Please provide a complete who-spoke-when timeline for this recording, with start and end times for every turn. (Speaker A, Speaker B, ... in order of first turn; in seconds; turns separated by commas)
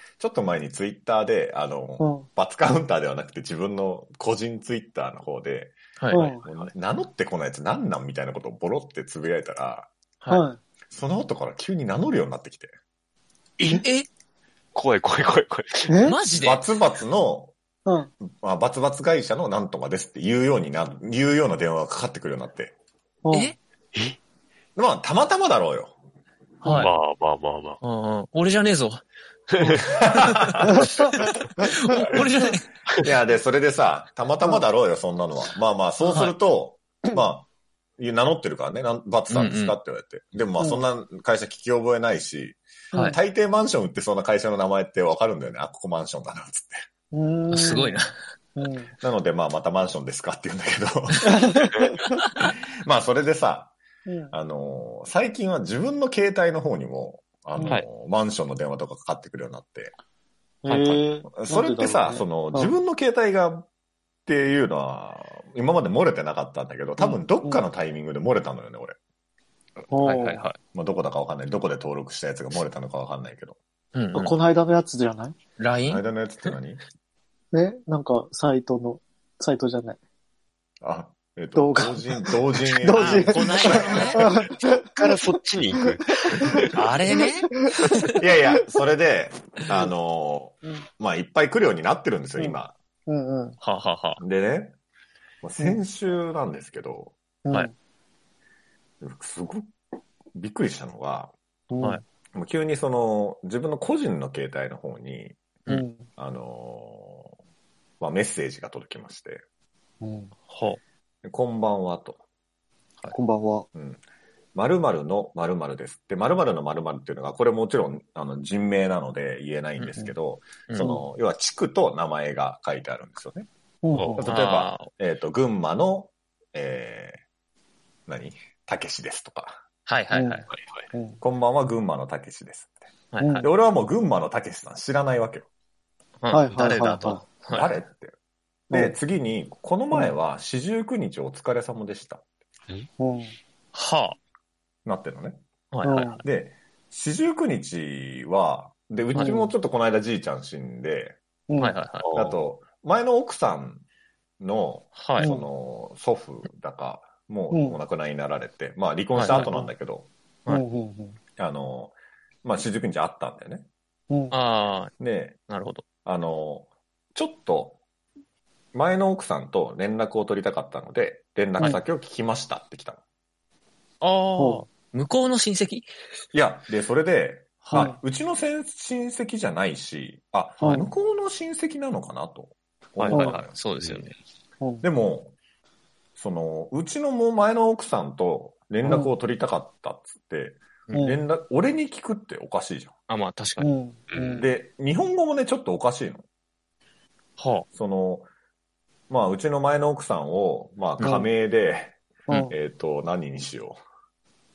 Speaker A: 0.2-9.9, Speaker B: 2.0-2.3, Speaker C: 6.0-6.7, Speaker B: 6.1-6.4, Speaker B: 10.3-10.6, Speaker A: 10.9-12.7, Speaker C: 13.7-14.1, Speaker D: 14.7-15.9, Speaker B: 15.9-16.2, Speaker C: 16.1-16.6, Speaker A: 16.4-17.5, Speaker B: 17.9-18.1, Speaker A: 18.2-22.7, Speaker B: 23.2-23.6, Speaker C: 23.3-23.6, Speaker A: 24.8-25.9, Speaker C: 26.6-26.9, Speaker D: 26.7-27.8, Speaker C: 27.8-29.0, Speaker D: 29.5-30.0, Speaker A: 30.1-30.7, Speaker C: 30.2-30.6, Speaker B: 30.7-31.1, Speaker C: 31.8-32.7, Speaker A: 33.0-46.8, Speaker C: 39.3-39.8, Speaker C: 42.9-43.2, Speaker B: 47.1-48.0, Speaker C: 47.5-48.1, Speaker B: 48.6-48.9, Speaker A: 49.0-51.6, Speaker B: 51.2-52.0, Speaker A: 52.4-53.8, Speaker B: 54.1-54.4, Speaker A: 54.3-59.9, Speaker B: 60.6-62.8, Speaker A: 60.7-63.7, Speaker A: 64.3-69.0, Speaker B: 67.0-67.7, Speaker B: 69.9-70.5, Speaker C: 70.0-70.6, Speaker A: 70.7-73.6, Speaker C: 73.9-74.3, Speaker B: 74.1-75.3, Speaker C: 75.6-76.5, Speaker A: 75.9-76.8, Speaker B: 77.5-80.0, Speaker A: 80.8-84.4, Speaker B: 81.5-82.1, Speaker B: 82.8-84.9, Speaker C: 82.9-84.4, Speaker D: 84.9-86.7, Speaker C: 86.7-88.2, Speaker A: 88.2-92.7, Speaker B: 93.1-93.6, Speaker C: 93.6-94.2, Speaker A: 94.2-94.8, Speaker A: 95.4-97.2, Speaker B: 97.5-97.7, Speaker A: 99.0-99.7, Speaker A: 100.3-101.3, Speaker B: 101.7-102.0, Speaker A: 102.3-105.6, Speaker B: 105.7-106.0, Speaker A: 106.2-107.3, Speaker A: 108.0-109.4, Speaker B: 110.0-110.3, Speaker C: 110.5-110.8, Speaker A: 111.2-112.2, Speaker B: 113.1-113.7, Speaker A: 113.8-114.0, Speaker A: 114.5-123.5, Speaker C: 119.8-120.0, Speaker C: 120.7-120.9, Speaker B: 120.8-121.1, Speaker B: 123.8-124.3, Speaker A: 124.2-127.2, Speaker C: 124.2-124.9, Speaker A: 128.1-129.6, Speaker C: 129.9-130.5, Speaker B: 130.1-131.2, Speaker D: 130.5-130.9, Speaker A: 131.2-132.7, Speaker C: 133.1-133.5, Speaker B: 133.2-133.5, Speaker A: 133.4-135.5, Speaker C: 136.2-137.7, Speaker B: 136.3-137.2, Speaker A: 137.5-138.1, Speaker B: 138.7-139.0, Speaker A: 138.7-142.2, Speaker B: 143.0-143.3, Speaker C: 143.7-144.2, Speaker A: 144.8-145.4, Speaker C: 145.7-146.2, Speaker B: 145.8-146.2, Speaker A: 146.2-151.2, Speaker B: 149.2-149.5, Speaker B: 151.5-151.8, Speaker C: 151.6-152.1, Speaker D: 152.0-152.4, Speaker A: 152.1-153.8, Speaker A: 154.4-160.1, Speaker C: 155.0-155.3, Speaker B: 155.2-155.5, Speaker B: 157.5-157.8, Speaker C: 159.2-159.5, Speaker B: 159.3-159.7, Speaker B: 160.5-161.2, Speaker A: 161.4-163.7, Speaker B: 164.1-164.4, Speaker C: 164.3-164.9, Speaker A: 165.0-165.4, Speaker C: 165.5-165.8, Speaker A: 166.0-167.8, Speaker A: 168.7-173.0, Speaker C: 174.0-175.9, Speaker B: 174.4-174.6, Speaker A: 176.3-183.6, Speaker C: 177.6-177.9, Speaker B: 180.6-180.9, Speaker C: 183.0-184.1, Speaker B: 183.1-183.4, Speaker B: 184.6-184.8, Speaker A: 184.8-185.3, Speaker A: 186.2-192.9, Speaker B: 188.8-189.1, Speaker B: 190.9-191.2, Speaker C: 193.1-193.7, Speaker B: 193.6-194.5, Speaker D: 194.1-194.5, Speaker A: 194.4-196.2, Speaker C: 197.4-197.7, Speaker A: 197.8-198.3, Speaker A: 199.1-202.0, Speaker B: 201.0-201.3, Speaker B: 202.3-202.5, Speaker A: 202.5-203.8